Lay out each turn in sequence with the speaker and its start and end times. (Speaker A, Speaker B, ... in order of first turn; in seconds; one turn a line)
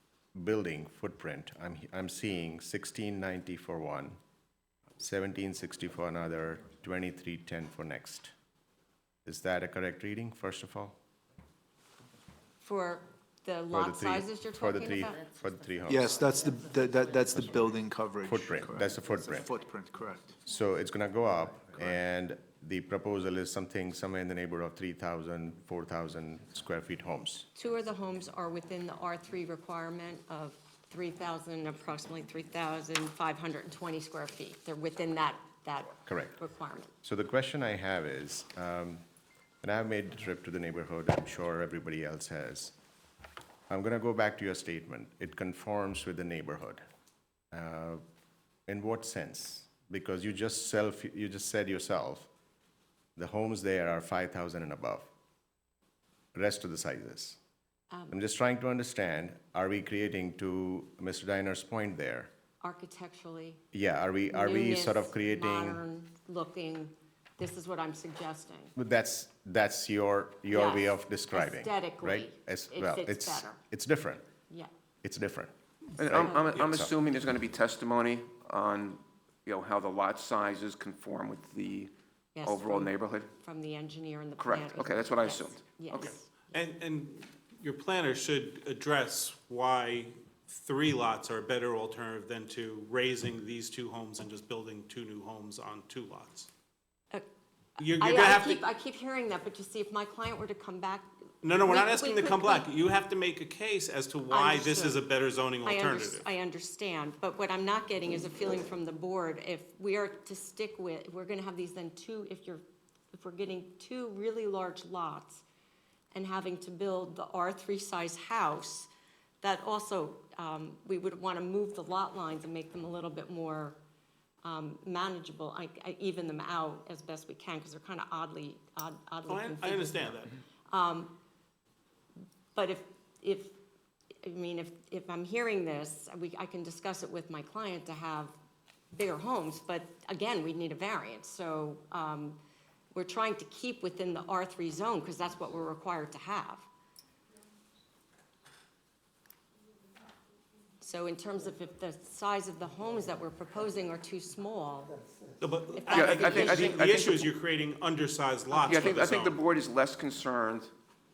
Speaker A: 0.3-4.2
Speaker A: 5.0-8.3
Speaker A: 9.2-10.9
Speaker B: 12.6-15.2
Speaker A: 13.7-16.1
Speaker C: 15.9-20.4
Speaker A: 18.2-19.5
Speaker A: 20.4-27.5
Speaker B: 27.5-36.9
Speaker A: 36.0-36.4
Speaker A: 37.0-39.0
Speaker A: 39.6-42.7
Speaker A: 43.7-46.8
Speaker A: 47.5-48.0
Speaker A: 48.7-52.3
Speaker A: 53.1-55.1
Speaker A: 56.3-57.4
Speaker B: 57.9-58.1
Speaker A: 58.1-62.3
Speaker B: 62.6-63.6
Speaker A: 63.7-65.8
Speaker B: 64.3-68.7
Speaker A: 68.8-74.2
Speaker B: 70.5-73.6
Speaker A: 75.0-76.9
Speaker D: 76.0-81.9
Speaker B: 76.2-76.5
Speaker B: 82.3-86.6
Speaker D: 82.4-83.3
Speaker D: 84.4-86.1
Speaker E: 85.9-96.5
Speaker E: 97.8-98.6
Speaker B: 97.8-102.7
Speaker E: 101.4-106.2
Speaker B: 104.3-105.0
Speaker B: 105.6-115.4
Speaker B: 116.1-123.8
Speaker B: 124.4-131.1
Speaker E: 129.3-130.4
Speaker B: 132.5-133.6
Speaker B: 134.2-138.4
Speaker B: 138.9-142.4
Speaker B: 142.9-146.7
Speaker B: 150.8-155.0
Speaker E: 155.4-159.4
Speaker B: 155.8-156.9
Speaker D: 155.9-157.2
Speaker D: 158.6-160.7